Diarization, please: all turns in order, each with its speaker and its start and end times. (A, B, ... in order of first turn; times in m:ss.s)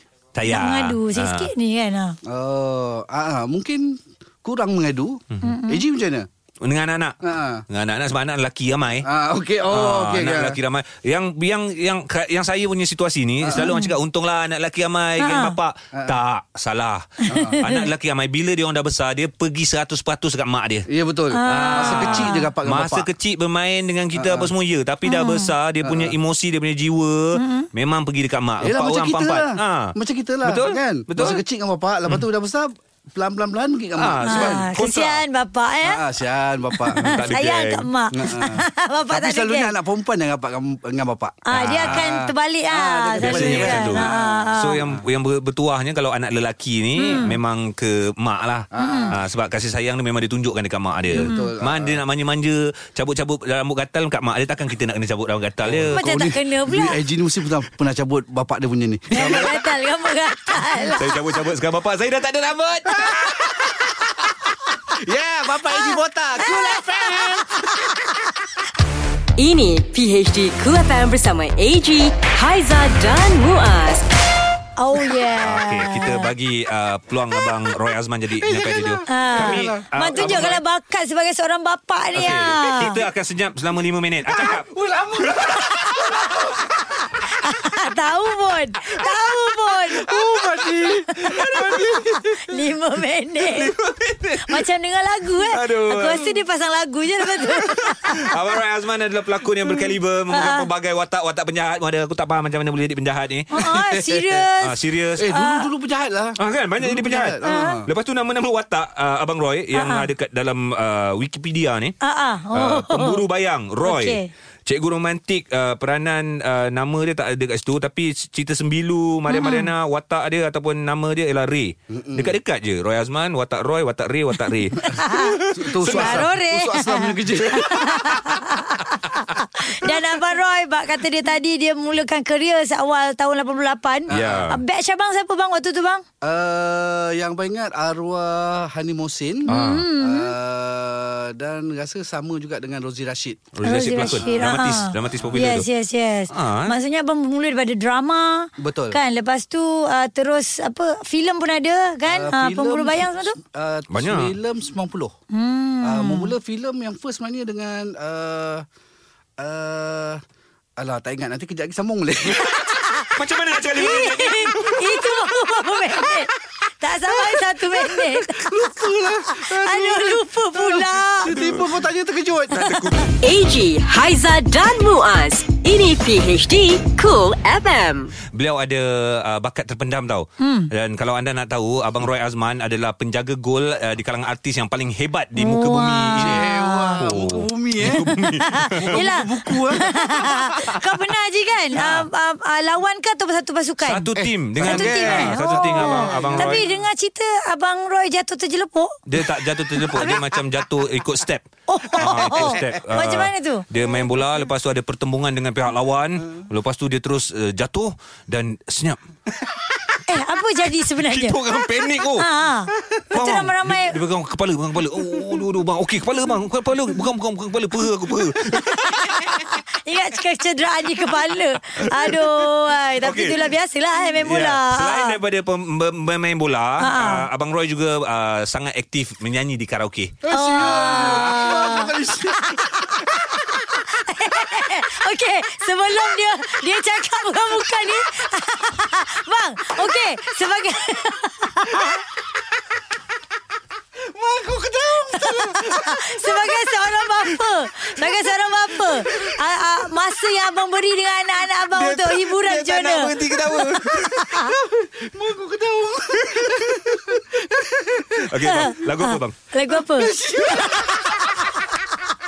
0:00.3-0:01.5 A
0:00.4-0:02.2 B
0:02.3-0:06.3 C
0:05.4-0:05.8 B
0:06.6-0:07.2 A
0:07.2-0:07.6 C
0:07.7-0:09.1 A
0:09.0-0:10.6 C
0:09.7-0:20.9 A
0:13.5-0:13.9 B
0:15.2-0:15.6 B
0:17.3-0:17.6 C
0:17.3-0:17.9 B
0:20.9-0:23.1 C
0:21.3-0:22.5 B
0:21.4-0:31.4 A
0:24.1-0:24.5 C
0:25.0-0:25.5 B
0:25.8-0:26.1 C
0:27.3-0:27.7 B
0:28.6-0:34.7 C
0:34.0-0:35.2 A
0:34.2-0:36.0 B
0:35.8-0:37.3 C
0:36.7-0:39.7 B
0:37.0-0:37.9 A
0:38.1-0:45.0 C
0:41.4-0:44.8 B
0:41.5-0:42.1 A
0:43.2-0:56.0 A
0:47.0-0:47.4 B
0:48.7-0:49.2 C
0:48.8-0:49.1 B
0:51.1-0:52.0 C
0:51.2-0:51.5 B
0:55.6-0:59.6 C
0:55.9-0:57.0 B
0:59.1-1:01.1 B
0:59.1-0:59.5 A
1:00.9-1:03.0 A
1:02.9-1:03.9 C
1:04.9-1:08.0 C
1:05.7-1:07.3 B
1:09.4-1:14.0 D
1:14.8-1:16.3 B
1:15.4-1:20.6 A
1:18.4-1:20.6 C
1:19.1-1:23.0 B
1:22.1-1:24.7 A
1:24.3-1:27.0 C
1:25.2-1:25.6 A
1:25.6-1:26.3 B
1:27.1-1:33.7 B
1:29.9-1:32.6 C
1:31.3-1:32.0 A
1:33.4-1:34.6 A
1:34.4-1:38.4 B
1:35.4-1:36.3 A
1:37.2-1:43.6 A
1:39.8-1:40.7 B
1:43.5-1:44.8 B
1:43.6-1:44.3 C
1:44.6-1:45.3 A
1:45.2-1:47.9 C
1:45.3-1:45.6 B
1:46.4-1:51.9 A
1:47.4-1:47.8 B
1:49.7-1:50.1 B
1:52.0-1:53.2 B
1:52.5-2:06.3 A
1:53.8-1:54.3 B
1:59.3-1:59.7 B
2:01.9-2:02.3 C
2:04.8-2:08.5 C
2:04.8-2:16.0 B
2:14.1-2:14.5 C
2:14.1-2:14.6 A
2:16.2-2:25.6 C
2:19.5-2:20.3 B
2:19.5-2:19.9 A
2:23.5-2:25.6 A
2:23.6-2:33.4 B
2:26.3-2:26.7 A
2:28.6-2:29.0 C
2:32.0-2:35.1 C
2:33.9-2:34.3 A
2:35.3-2:36.3 B
2:35.8-2:38.6 C
2:39.4-2:40.2 C
2:40.8-2:42.6 C
2:42.4-2:51.4 B
2:43.1-2:44.9 A
2:47.2-2:52.8 C
2:51.3-2:51.6 A
2:52.5-2:53.0 A
2:52.7-2:52.9 B
2:53.2-2:58.1 D
2:58.3-3:06.4 A
3:00.4-3:00.7 B
3:05.4-3:07.0 B
3:06.1-3:10.8 C
3:07.0-3:09.1 A
3:07.9-3:14.1 B
3:11.7-3:12.1 A
3:13.8-3:16.6 A
3:14.2-3:16.8 C
3:14.6-3:19.0 B
3:19.1-3:30.0 A
3:19.7-3:20.3 B
3:19.9-3:20.2 C
3:21.7-3:24.0 B
3:21.9-3:22.8 C
3:30.1-3:34.0 B
3:30.9-3:39.5 A
3:38.6-3:45.2 B
3:41.7-3:43.6 A
3:44.1-3:51.4 A
3:46.8-3:47.3 B
3:50.2-3:53.5 C
3:50.3-4:02.0 B
4:04.0-4:07.0 C
4:05.2-4:14.6 B
4:08.7-4:09.4 C
4:11.7-4:14.4 A
4:14.0-4:18.3 C
4:16.4-4:16.9 A
4:18.2-4:19.3 A
4:18.4-4:21.8 B
4:19.7-4:21.5 C